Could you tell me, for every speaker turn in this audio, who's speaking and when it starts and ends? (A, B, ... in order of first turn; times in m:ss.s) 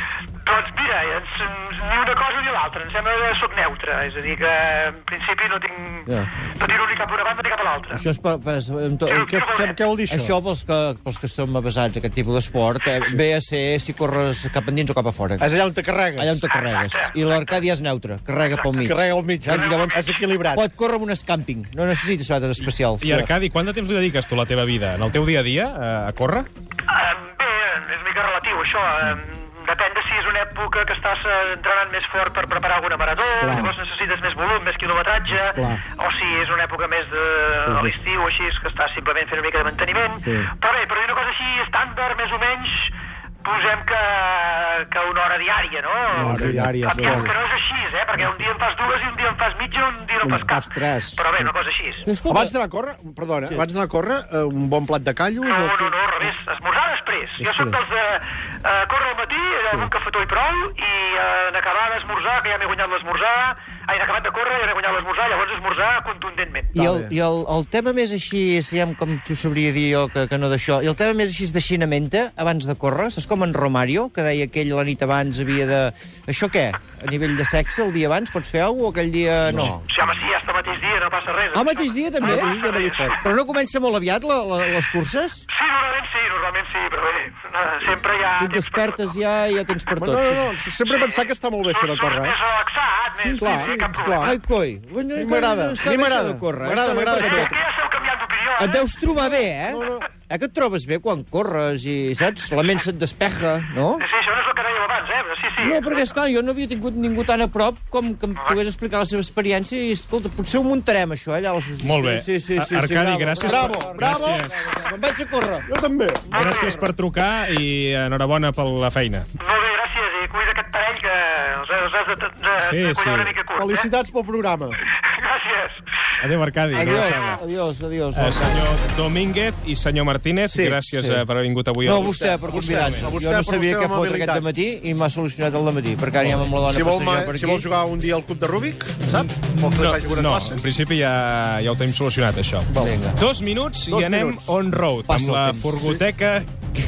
0:00.4-0:08.0 A
0:06.1-0:06.4 B
0:07.9-0:09.3 B
0:09.1-0:09.8 A
0:09.2-0:10.4 C
0:10.1-0:15.5 B
0:15.4-0:16.4 C
0:16.2-0:23.3 B
0:16.5-0:17.5 A
0:18.8-0:20.6 C
0:19.5-0:20.1 A
0:23.0-0:26.5 D
0:26.9-0:50.6 A
0:33.4-0:33.7 C
0:35.6-0:35.8 C
0:37.7-0:37.9 C
0:46.1-0:47.3 C
0:46.2-0:47.3 B
0:50.2-0:51.2 C
0:51.2-0:52.1 A
0:52.0-0:52.5 B
0:52.3-0:56.3 C
0:55.4-1:06.7 A
1:06.7-1:19.8 B
1:06.8-1:07.1 C
1:19.4-1:19.9 C
1:19.9-1:23.2 A
1:21.5-1:22.5 B
1:22.2-1:23.2 C
1:23.2-1:25.4 B
1:25.5-1:29.0 A
1:28.4-1:30.5 B
1:30.0-1:32.4 C
1:30.9-1:34.4 A
1:33.2-1:37.5 B
1:33.4-1:34.3 C
1:35.1-1:37.6 C
1:37.2-1:38.9 A
1:38.6-1:44.0 B
1:39.1-1:40.1 C
1:44.0-1:46.1 A
1:45.6-1:55.7 B
1:51.8-1:54.7 D
1:53.4-1:54.4 C
1:55.6-1:56.5 C
1:56.3-1:56.8 A
1:56.3-1:59.3 D
1:59.4-2:03.9 A
2:02.6-2:03.4 D
2:03.6-2:04.8 C
2:04.9-2:05.8 A
2:06.2-2:07.4 D
2:06.7-2:08.6 B
2:06.8-2:07.4 A
2:08.1-2:13.1 D
2:10.5-2:10.8 C
2:11.0-2:11.2 B
2:11.8-2:17.7 B
2:12.0-2:14.5 C
2:16.6-2:20.6 C
2:19.2-2:26.5 D
2:22.8-2:23.2 B
2:23.9-2:24.6 C
2:25.1-2:25.9 B